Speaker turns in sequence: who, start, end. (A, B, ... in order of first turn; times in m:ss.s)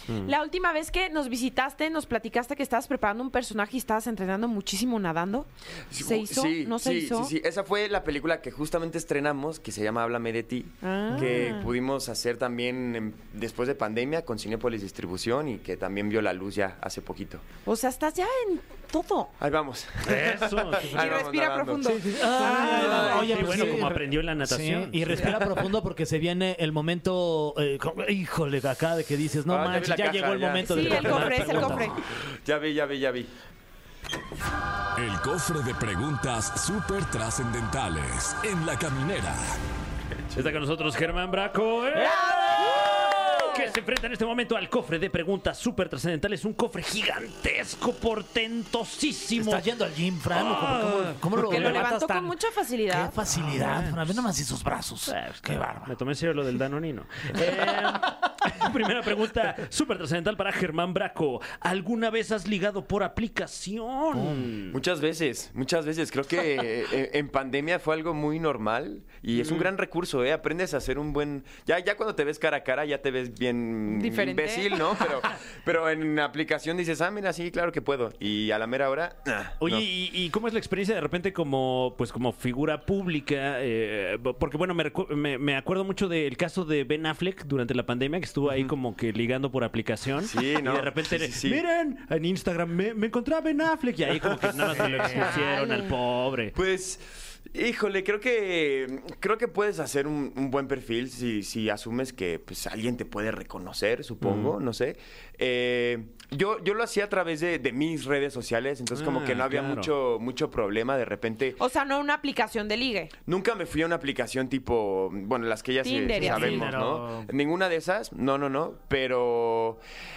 0:00.2-0:05.5 A
0:05.9-0:17.4 B
0:06.0-0:07.3 A
0:10.8-0:11.7 A
0:17.6-0:19.3 A
0:19.4-0:24.0 B
0:20.0-0:21.2 C
0:20.9-0:23.7 A
0:21.8-0:31.9 D
0:22.3-0:25.4 C
0:29.5-0:33.3 B
0:30.6-0:32.0 A
0:30.9-0:32.0 C
0:35.0-0:39.6 E
0:40.3-0:40.6 B
0:40.4-0:49.7 C
0:42.0-0:42.3 D
0:42.1-0:43.6 A
0:49.4-0:52.4 D
0:50.3-0:51.9 C
0:51.4-0:53.2 A
0:52.9-0:55.9 D
0:53.4-0:54.1 C
0:55.1-1:04.8 C
1:04.1-1:04.5 D
1:04.7-1:19.8 B
1:09.4-1:09.7 C
1:13.9-1:14.8 A
1:19.6-1:36.5 C
1:30.2-1:31.6 B
1:34.7-1:35.3 B
1:34.7-1:35.3 D
1:35.1-1:35.9 A
1:36.5-1:51.6 B
1:44.2-1:44.6 C
1:48.9-1:49.9 C
1:51.6-1:53.1 A
1:53.2-1:59.8 B
1:55.8-1:56.7 A
1:56.1-1:57.3 D